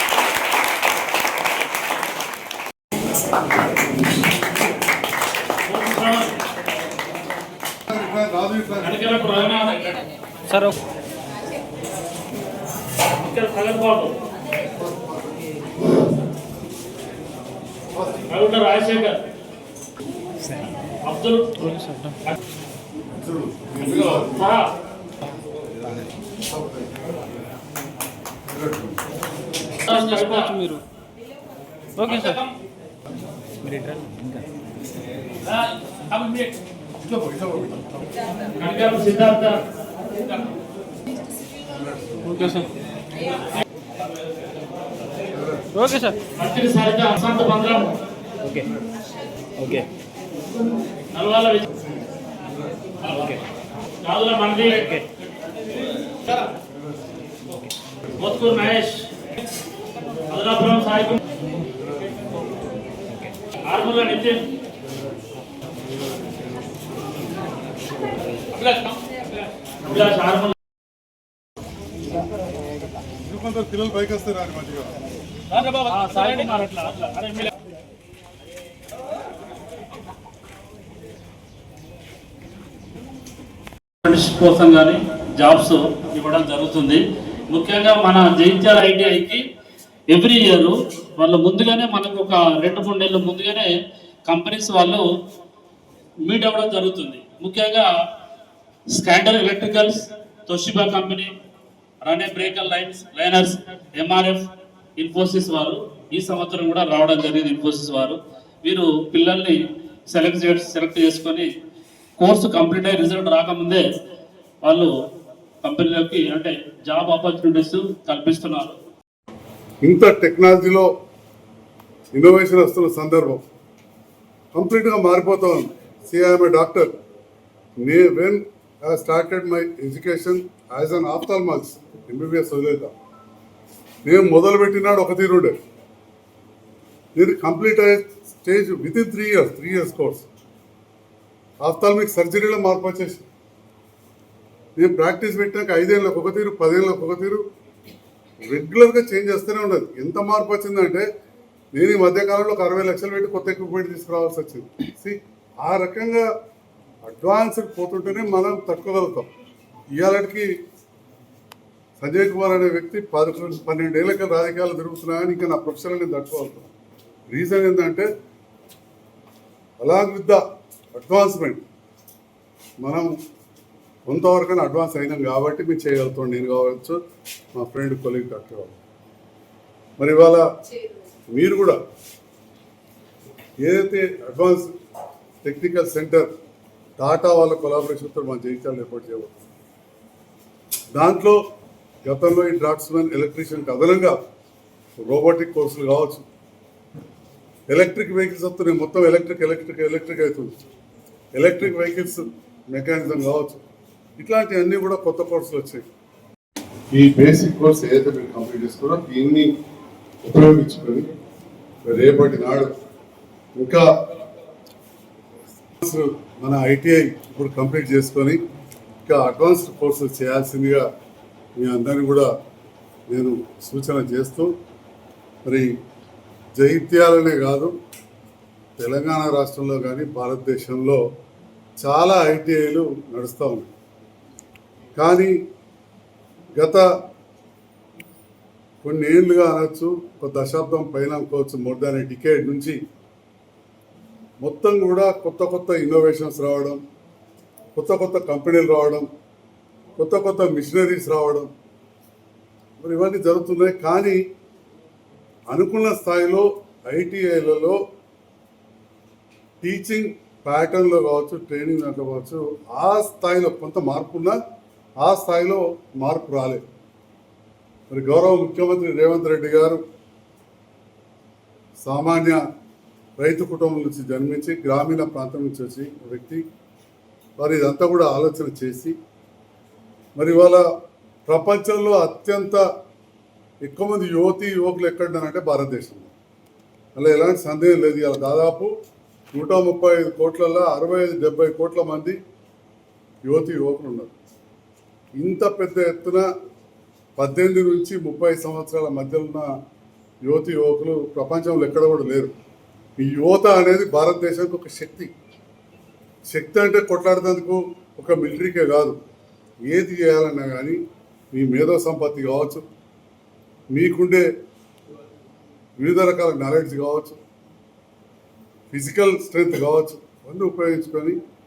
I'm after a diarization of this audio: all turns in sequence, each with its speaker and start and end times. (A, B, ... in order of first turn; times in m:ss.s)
0:05.7-0:06.3 A
0:07.9-0:09.0 B
0:08.8-0:10.0 A
0:10.5-0:10.8 C
0:13.2-0:14.2 A
0:14.8-0:15.4 B
0:18.0-0:18.2 B
0:18.3-0:19.2 A
0:21.0-0:22.4 A
0:21.7-0:22.2 C
0:23.2-0:24.5 B
0:24.1-0:24.7 A
0:26.5-0:26.9 B
0:28.5-0:28.9 B
0:29.8-0:30.8 A
0:32.0-0:32.3 C
0:32.0-0:32.5 A
0:33.6-0:34.4 C
0:35.5-0:36.5 A
0:37.0-0:37.8 B
0:38.6-0:39.6 A
0:42.2-0:42.7 C
0:45.7-0:46.2 C
0:46.3-0:48.0 A
0:49.6-0:49.9 C
0:51.1-0:51.7 A
0:53.1-0:53.4 A
0:54.0-0:55.0 A
0:58.2-0:59.1 A
1:00.3-1:01.2 A
1:03.6-1:04.5 A
1:08.6-1:09.0 A
1:09.8-1:10.6 A
1:13.2-1:15.0 B
1:15.6-1:17.5 A
1:24.0-1:29.4 A
1:30.1-1:33.7 A
1:34.3-1:35.0 A
1:36.3-1:37.9 A
1:38.9-1:41.3 A
1:42.0-1:44.5 A
1:45.0-1:49.6 A
1:50.1-1:51.5 A
1:52.2-1:53.8 A
1:54.6-1:54.9 A
1:55.6-1:58.8 A
1:59.8-2:00.9 B
2:02.1-2:03.4 B
2:04.5-2:06.9 B
2:07.8-2:12.9 B
2:14.0-2:15.6 B
2:17.2-2:20.3 B
2:21.6-2:23.3 B
2:24.8-2:27.4 B
2:28.5-2:31.1 B
2:31.7-2:36.3 B
2:37.0-2:39.3 B
2:40.0-2:40.5 B
2:42.0-2:46.7 B
2:47.3-2:48.1 B
2:49.8-2:50.4 B
2:50.9-2:51.6 B
2:52.8-2:53.1 B
2:54.1-2:57.0 B
2:57.6-2:58.8 B
3:00.0-3:00.4 B
3:01.3-3:01.8 B
3:03.6-3:04.7 B
3:05.4-3:06.3 B
3:07.0-3:09.3 B
3:10.9-3:11.4 B
3:12.1-3:14.2 B
3:15.0-3:16.2 B
3:17.7-3:20.5 B
3:21.4-3:23.6 B
3:24.2-3:25.9 B
3:26.9-3:29.5 B
3:30.2-3:31.1 B
3:31.8-3:32.7 B
3:33.6-3:33.9 B
3:35.8-3:38.4 B
3:39.1-3:40.9 B
3:41.6-3:42.3 B
3:43.1-3:44.5 B
3:46.6-3:47.7 B
3:48.8-3:51.0 B
3:51.8-3:53.7 B
3:55.0-3:55.3 B
3:56.6-3:56.8 B
3:58.8-4:02.8 B
4:04.4-4:06.8 B
4:07.8-4:09.1 B
4:10.0-4:11.5 B
4:12.8-4:14.2 B
4:15.5-4:17.8 B
4:19.6-4:24.4 B
4:25.0-4:26.6 B
4:27.9-4:29.8 B
4:31.8-4:32.4 B
4:33.2-4:36.4 B
4:37.4-4:39.0 B
4:40.2-4:40.6 B
4:41.3-4:42.6 B
4:43.6-4:46.1 B
4:47.0-4:48.7 B
4:49.3-4:52.2 B
4:53.3-4:54.1 B
4:55.2-4:56.3 B
4:57.2-4:59.5 B
5:00.2-5:02.3 B
5:03.0-5:05.1 B
5:06.3-5:09.0 B
5:09.7-5:10.8 B
5:11.3-5:12.6 B
5:13.7-5:14.3 B
5:15.8-5:17.2 B
5:18.7-5:21.2 B